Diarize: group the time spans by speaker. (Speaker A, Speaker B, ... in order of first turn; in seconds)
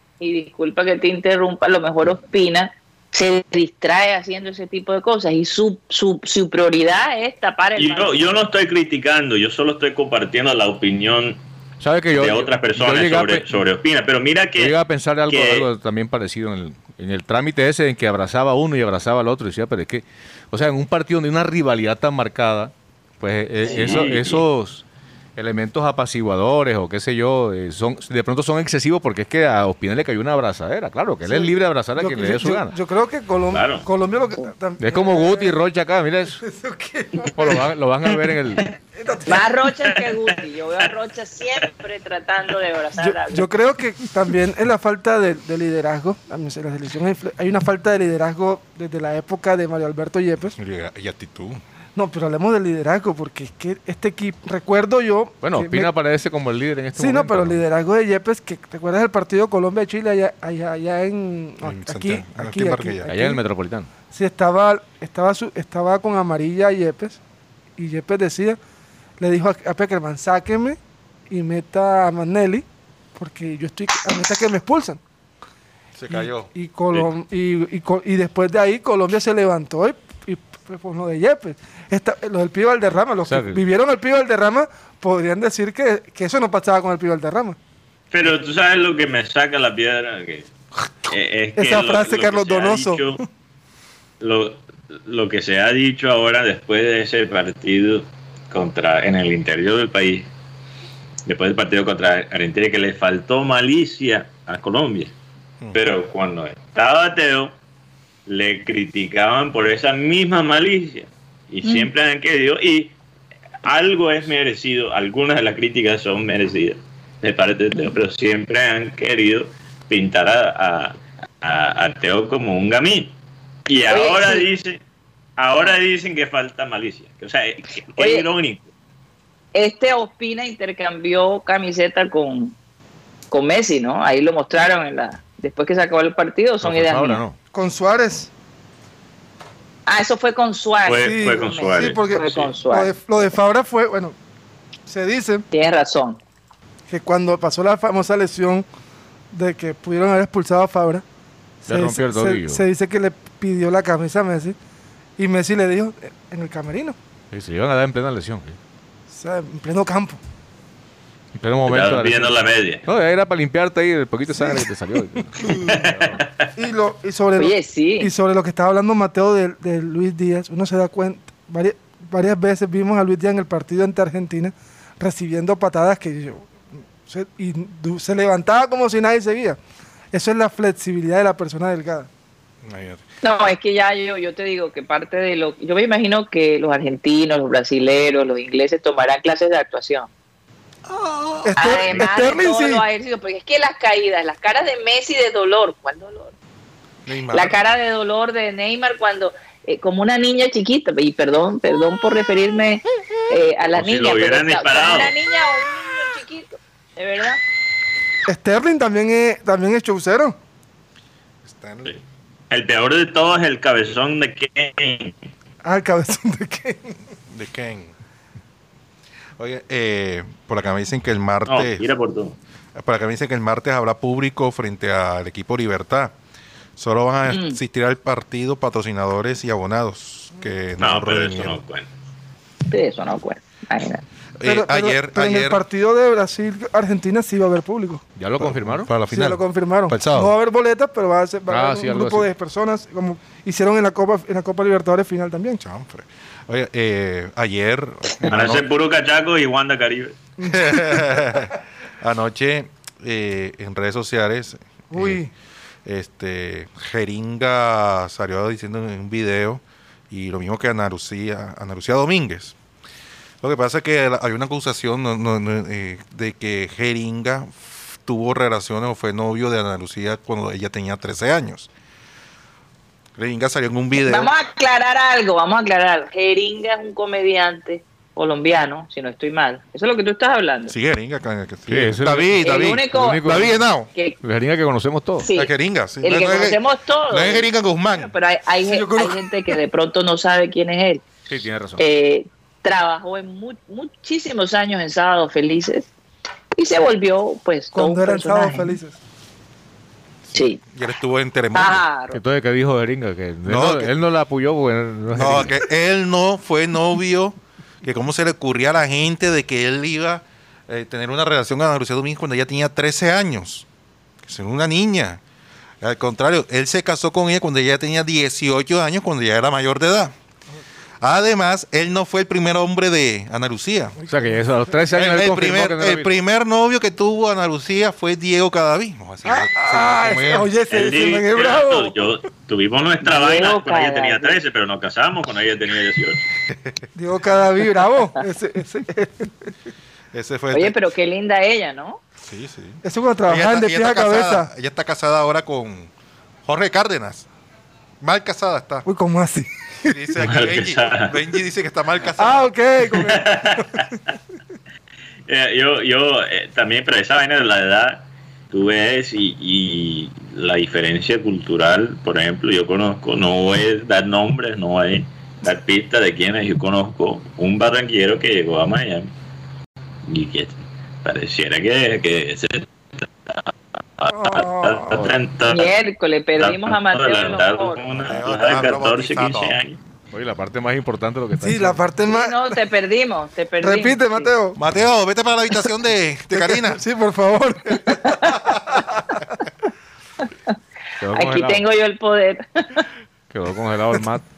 Speaker A: 0.2-8.4, 39.2-43.5, 111.6-111.9, 123.9-124.5, 128.0-128.2, 129.5-132.5, 133.3-137.2, 139.9-143.0, 145.5-146.2, 167.4-168.1, 183.2-190.1, 191.5-196.3, 197.3-207.4, 227.3-227.6, 232.7-234.0, 274.0-280.7, 282.4-284.1, 285.2-285.5, 286.0-291.0, 291.8-295.9, 296.6-298.7, 300.3-300.6, 301.5-302.2, 333.0-334.4, 340.5-342.0, 375.4-377.8, 382.1-384.3, 391.1-392.9
Speaker B: 7.8-11.4, 12.1-14.7, 15.3-15.7, 23.6-24.4, 33.5-33.9, 88.1-90.5, 91.1-93.2, 94.2-100.3, 101.2-105.1, 105.7-107.5, 108.3-112.9, 113.6-123.1, 123.7-124.8, 125.4-128.7, 140.8-142.5, 161.7-162.8, 165.6-166.3, 203.7-205.1, 212.5-215.1, 221.5-222.3, 230.8-231.9, 248.3-250.1, 330.7-336.2, 350.2-351.2, 353.0-353.9, 355.3-369.1, 370.1-375.7, 376.4-379.8
Speaker C: 11.8-13.5, 14.6-24.8, 25.4-32.7, 34.8-36.4, 37.3-38.7, 55.4-57.6, 63.0-63.9, 83.2-83.6, 136.6-137.4, 151.7-152.6, 157.3-158.6, 161.3-162.3, 162.9-166.2, 238.2-238.9, 241.5-242.3, 281.7-282.4, 282.9-283.5, 284.2-285.3, 291.3-291.8, 302.1-305.5, 324.1-326.1, 380.1-381.8, 391.0-391.6, 393.3-394.2
Speaker D: 31.2-35.6, 36.4-37.7, 39.0-39.5, 43.0-50.6, 52.0-55.9, 56.9-63.4, 64.1-67.2, 67.8-68.6, 69.2-70.8, 71.3-72.6, 73.2-75.0, 76.1-87.6, 91.6-93.2, 137.5-138.3, 141.0-144.1, 144.9-145.4, 146.9-148.7, 149.3-151.0, 151.7-154.6, 155.2-156.9, 159.1-160.2, 164.4-164.7, 165.4-165.8, 166.5-176.5, 177.1-179.6, 180.1-182.1, 191.4-192.8, 208.3-210.3, 215.6-216.9, 234.4-238.0, 239.1-245.6, 250.4-251.2, 254.9-255.3, 288.6-289.3, 297.7-299.0, 324.0-324.4, 329.2-332.1, 336.9-339.5, 342.8-344.5, 348.8-350.1, 352.2-353.9, 374.1-375.1, 381.4-382.5, 383.6-384.6, 386.3-389.2
Speaker E: 50.6-51.6, 61.6-63.1, 76.0-76.5, 182.6-183.0, 190.9-191.4, 197.1-197.6, 211.4-211.9, 217.3-217.9, 219.4-221.8, 222.7-226.1, 226.8-231.6, 234.4-235.6, 238.4-240.3, 245.6-248.7, 250.4-255.2, 255.8-262.6, 263.4-271.7, 273.2-274.3, 280.7-283.9, 285.3-288.1, 300.3-301.8, 303.4-303.9, 305.1-313.7, 314.2-315.2, 315.8-320.1, 321.0-324.0, 324.9-330.5, 336.5-336.8, 340.1-340.8, 342.2-345.9, 346.4-347.3, 348.0-348.9, 349.9-352.5, 378.0-379.6, 384.6-386.8, 387.7-388.8